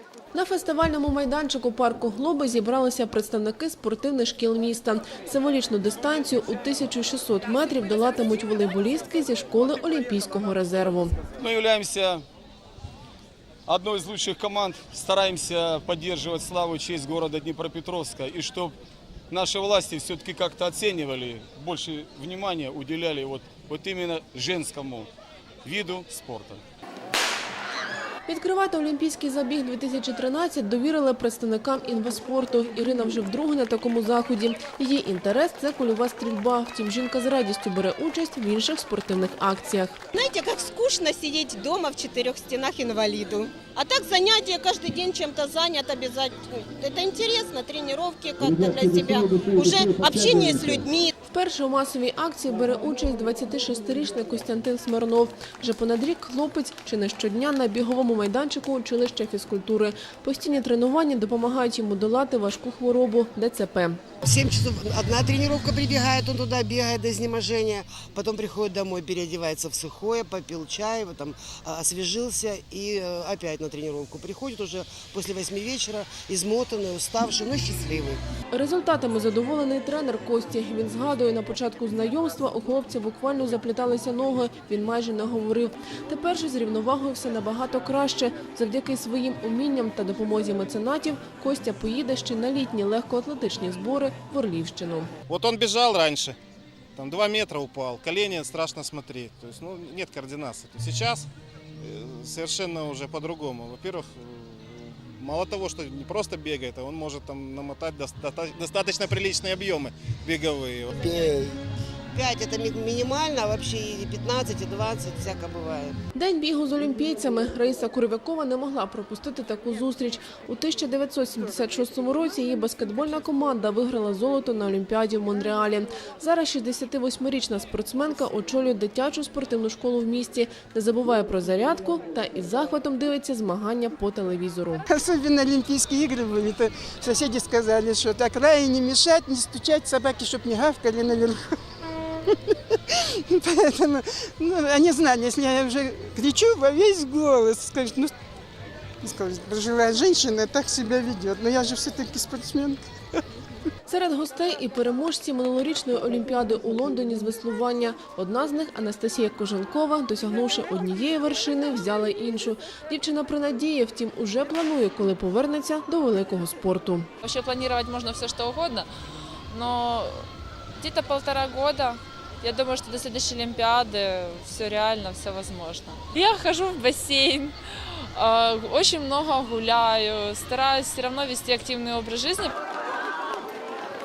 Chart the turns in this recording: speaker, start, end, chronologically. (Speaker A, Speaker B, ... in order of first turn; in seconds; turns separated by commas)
Speaker A: 0.3-11.2, Speaker B: 11.4-12.2, Speaker B: 13.7-18.7, Speaker B: 19.3-25.1, Speaker B: 25.6-26.6, Speaker A: 28.3-40.0, Speaker C: 40.1-51.1, Speaker A: 51.3-64.0, Speaker D: 64.2-78.2, Speaker A: 78.5-95.1, Speaker E: 95.3-96.3, Speaker E: 96.9-101.3, Speaker E: 101.8-111.3, Speaker D: 111.0-111.5, Speaker D: 112.1-116.0, Speaker A: 116.1-134.8, Speaker F: 134.9-141.5, Speaker F: 142.2-148.1, Speaker F: 149.0-152.8, Speaker A: 153.9-167.1, Speaker G: 167.2-168.9, Speaker G: 169.5-170.2, Speaker G: 170.8-182.5